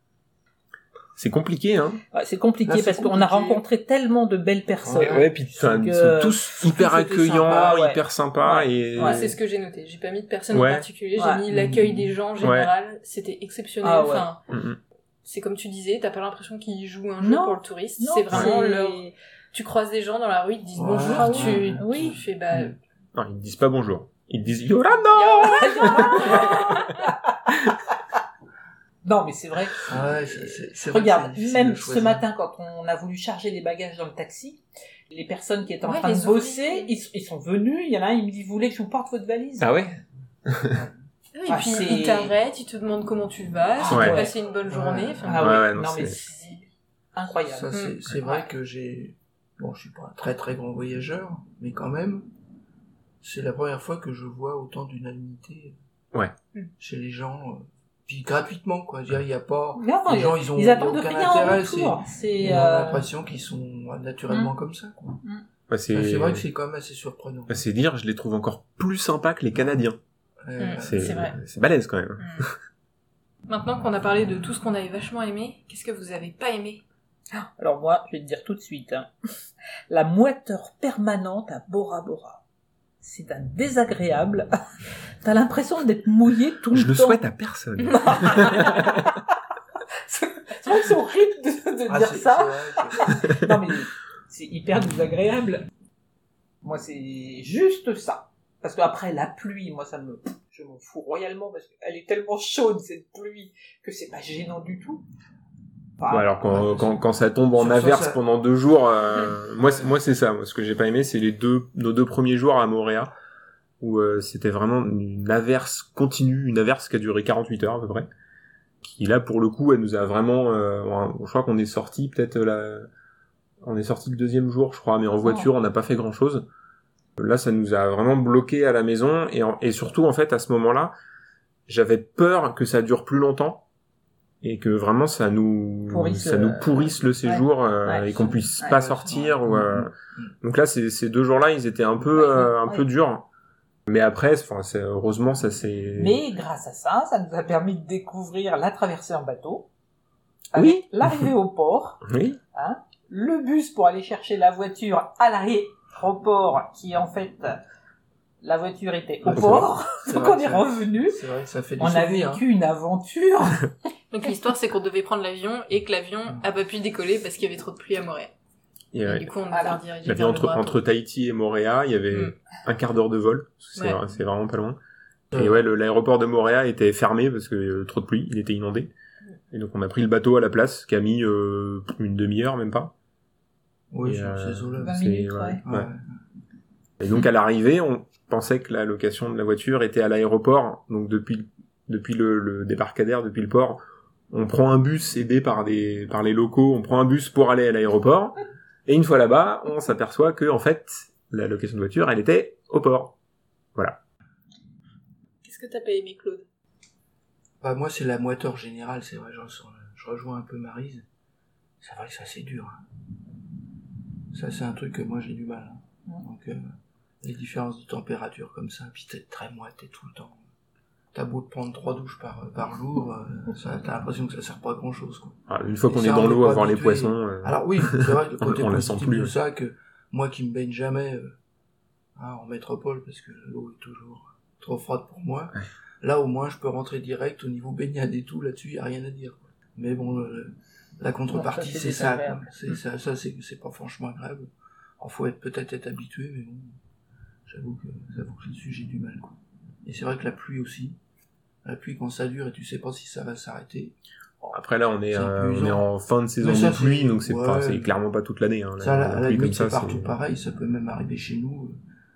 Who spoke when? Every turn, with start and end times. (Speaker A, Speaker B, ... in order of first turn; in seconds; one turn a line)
Speaker A: 1.1-2.0
Speaker B: 2.1-9.2
Speaker C: 2.6-3.3
Speaker D: 3.0-3.6
Speaker C: 4.8-5.3
Speaker A: 4.9-9.3
Speaker C: 7.3-7.8
Speaker D: 9.0-14.4
Speaker A: 10.5-10.8
Speaker B: 11.2-11.4
Speaker C: 11.5-12.1
Speaker A: 12.4-12.7
Speaker B: 13.8-14.3
Speaker A: 14.5-14.8
Speaker D: 15.2-22.8
Speaker B: 17.2-19.1
Speaker C: 20.8-22.8
Speaker B: 21.0-22.2
Speaker A: 23.1-26.9
Speaker D: 24.9-27.0
Speaker B: 25.5-27.1
Speaker B: 29.0-39.7
Speaker C: 29.9-32.2
Speaker D: 35.8-36.9
Speaker A: 39.6-40.8
Speaker D: 41.3-46.6
Speaker B: 41.5-42.3
Speaker B: 43.8-44.3
Speaker A: 43.9-44.2
Speaker C: 44.7-45.6
Speaker B: 45.2-47.8
Speaker A: 45.3-46.2
Speaker C: 47.5-52.2
Speaker D: 47.7-48.4
Speaker C: 53.2-55.8
Speaker C: 56.8-65.2
Speaker B: 59.8-63.0
Speaker A: 65.7-66.4
Speaker C: 65.9-67.6
Speaker A: 67.5-70.0
Speaker C: 70.4-71.4
Speaker D: 70.6-71.4
Speaker A: 70.8-72.5
Speaker D: 72.2-72.5
Speaker D: 73.5-76.8
Speaker B: 77.3-79.1
Speaker B: 79.9-82.4
Speaker B: 83.0-84.5
Speaker B: 85.2-87.2
Speaker A: 86.7-89.1
Speaker B: 87.9-89.2
Speaker D: 87.9-88.8
Speaker B: 90.0-95.7
Speaker C: 91.9-93.2
Speaker B: 96.6-105.0
Speaker B: 106.0-106.7
Speaker A: 106.1-113.1
Speaker C: 106.5-106.9
Speaker C: 107.5-108.2
Speaker C: 109.6-109.9
Speaker A: 113.8-118.1
Speaker A: 118.8-122.9
Speaker A: 123.6-126.5
Speaker A: 127.2-130.9
Speaker A: 131.7-133.6
Speaker A: 134.4-143.2
Speaker B: 135.9-138.8
Speaker C: 138.7-140.3
Speaker B: 142.1-142.8
Speaker A: 143.9-146.2
Speaker B: 145.9-149.7
Speaker B: 150.5-157.6
Speaker A: 150.5-151.3
Speaker A: 152.1-152.4
Speaker B: 158.4-161.2
Speaker C: 159.2-162.4
Speaker A: 159.3-159.6
Speaker B: 161.8-163.7
Speaker D: 164.1-168.3
Speaker A: 168.9-169.3
Speaker D: 169.0-170.8
Speaker B: 169.5-169.8
Speaker A: 170.0-174.8
Speaker C: 175.3-175.6
Speaker A: 175.3-178.9
Speaker A: 179.5-182.9
Speaker C: 183.9-185.0
Speaker A: 184.0-185.9
Speaker B: 184.8-185.6
Speaker C: 185.6-186.1
Speaker A: 187.0-193.8
Speaker A: 194.3-203.1
Speaker D: 205.4-206.4
Speaker C: 207.6-211.0
Speaker C: 211.8-212.8
Speaker C: 214.3-216.7
Speaker C: 217.2-220.4
Speaker C: 221.1-231.3
Speaker A: 225.5-229.3
Speaker C: 232.2-246.8
Speaker B: 241.3-242.5
Speaker C: 247.5-251.0
Speaker C: 251.6-254.6
Speaker A: 254.5-260.1
Speaker C: 255.1-255.8
Speaker C: 256.4-257.9
Speaker C: 258.8-261.8